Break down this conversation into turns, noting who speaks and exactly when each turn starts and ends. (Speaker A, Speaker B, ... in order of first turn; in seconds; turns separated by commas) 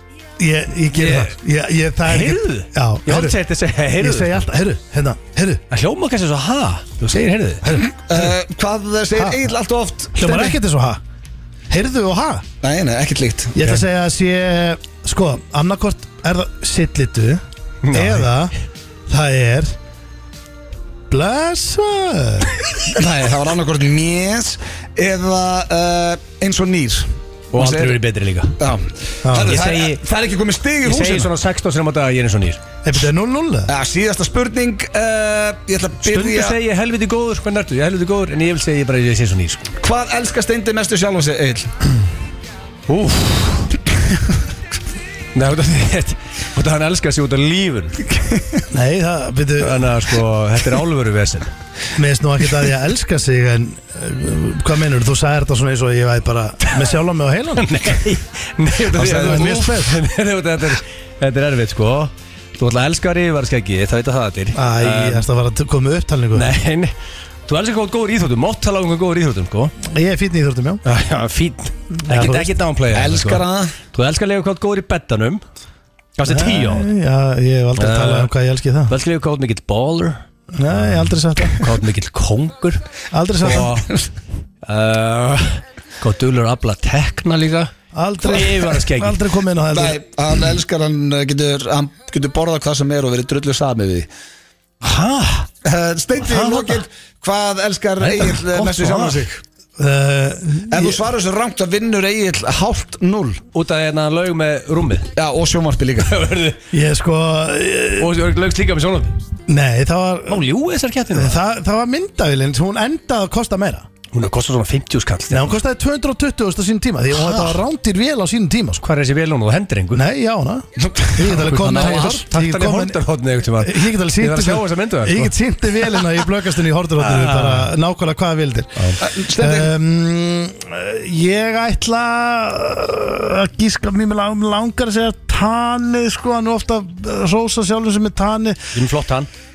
Speaker A: 0.4-3.4, Speaker B: 0.9-1.3, Speaker B: 2.1-4.5, Speaker A: 4.0-5.6, Speaker B: 5.7-7.8, Speaker C: 7.8-10.6, Speaker A: 9.1-9.4, Speaker A: 10.2-11.0, Speaker A: 11.7-12.4, Speaker C: 12.6-13.6, Speaker A: 13.6-18.5, Speaker B: 17.8-18.3, Speaker A: 19.1-19.8, Speaker A: 21.1-22.6, Speaker C: 22.9-28.0, Speaker B: 27.5-28.6, Speaker C: 28.6-31.3, Speaker A: 29.2-29.6, Speaker B: 29.4-30.0, Speaker B: 30.8-32.6, Speaker A: 32.8-33.7, Speaker C: 33.7-36.6, Speaker B: 36.0-39.7, Speaker C: 39.8-41.7, Speaker B: 42.9-43.8, Speaker B: 45.4-48.2, Speaker A: 48.7-50.0, Speaker B: 49.6-51.5, Speaker A: 52.0-58.0, Speaker B: 57.6-65.2, Speaker A: 58.9-60.0, Speaker A: 64.5-66.5, Speaker B: 66.3-66.9, Speaker B: 67.5-69.7, Speaker A: 69.8-70.8, Speaker B: 70.8-75.4, Speaker A: 72.0-72.5, Speaker C: 72.9-73.8, Speaker B: 76.2-76.9, Speaker A: 76.3-78.9, Speaker B: 77.8-78.3, Speaker B: 78.9-80.2, Speaker A: 80.5-81.7, Speaker B: 80.8-82.8, Speaker A: 83.1-83.8, Speaker B: 83.4-83.9, Speaker B: 84.7-87.7, Speaker A: 87.9-90.0, Speaker B: 88.2-89.3, Speaker C: 89.7-94.1, Speaker B: 94.8-95.5, Speaker C: 95.6-99.4, Speaker B: 96.2-96.8, Speaker B: 98.0-99.3, Speaker A: 99.8-101.0, Speaker C: 100.7-103.4, Speaker B: 103.5-105.1, Speaker C: 105.2-106.1, Speaker B: 106.0-106.6, Speaker A: 106.7-108.1, Speaker B: 108.0-109.2, Speaker A: 109.5-110.5, Speaker B: 110.3-111.4, Speaker A: 111.1-113.9, Speaker B: 114.1-115.5, Speaker A: 115.3-118.8, Speaker B: 117.2-117.6, Speaker B: 118.8-120.0, Speaker A: 119.9-123.0, Speaker C: 120.8-122.2, Speaker B: 121.5-125.3, Speaker A: 123.6-138.8, Speaker B: 127.0-127.7, Speaker C: 129.0-129.7, Speaker B: 138.7-139.3